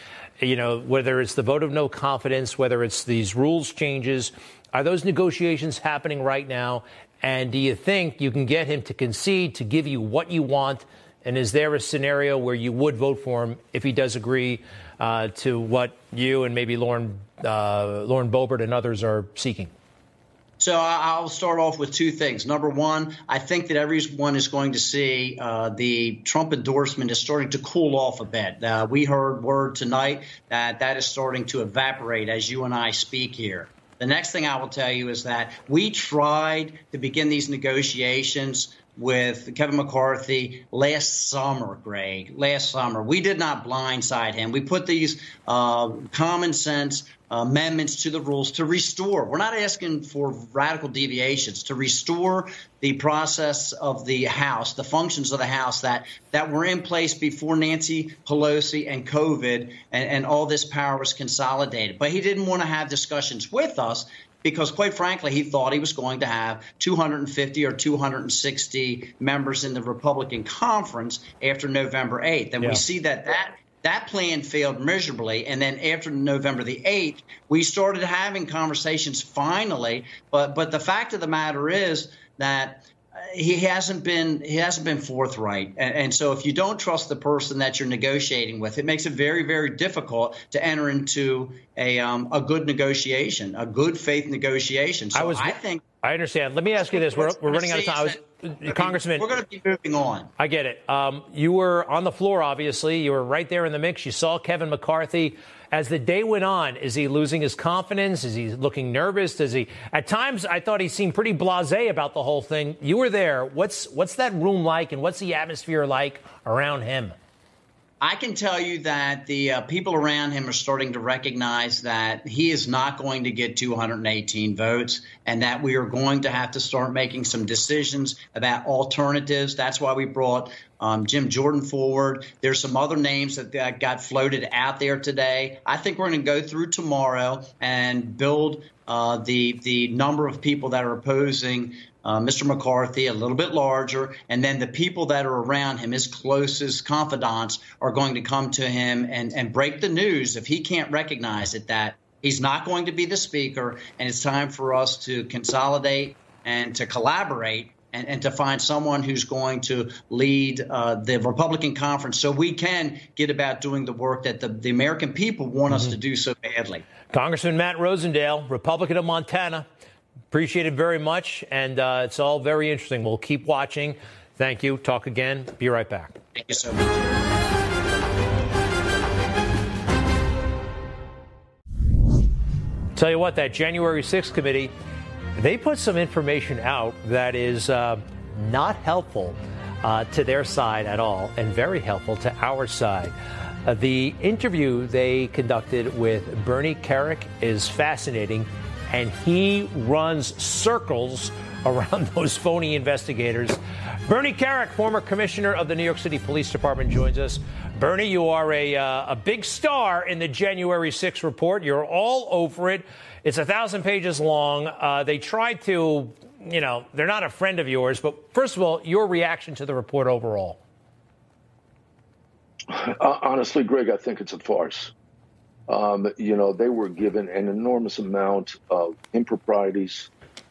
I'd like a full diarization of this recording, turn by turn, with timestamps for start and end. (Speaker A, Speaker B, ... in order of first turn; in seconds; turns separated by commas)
Speaker A: 0.4-19.7, Speaker B: 20.6-95.8, Speaker A: 95.1-99.3, Speaker B: 96.8-100.3, Speaker A: 100.4-117.2, Speaker B: 118.0-166.8, Speaker A: 165.7-166.0, Speaker A: 167.1-169.7, Speaker A: 170.3-176.2, Speaker B: 176.4-177.0, Speaker A: 183.0-184.7, Speaker A: 185.4-220.6, Speaker C: 222.7-224.9, Speaker C: 225.7-230.1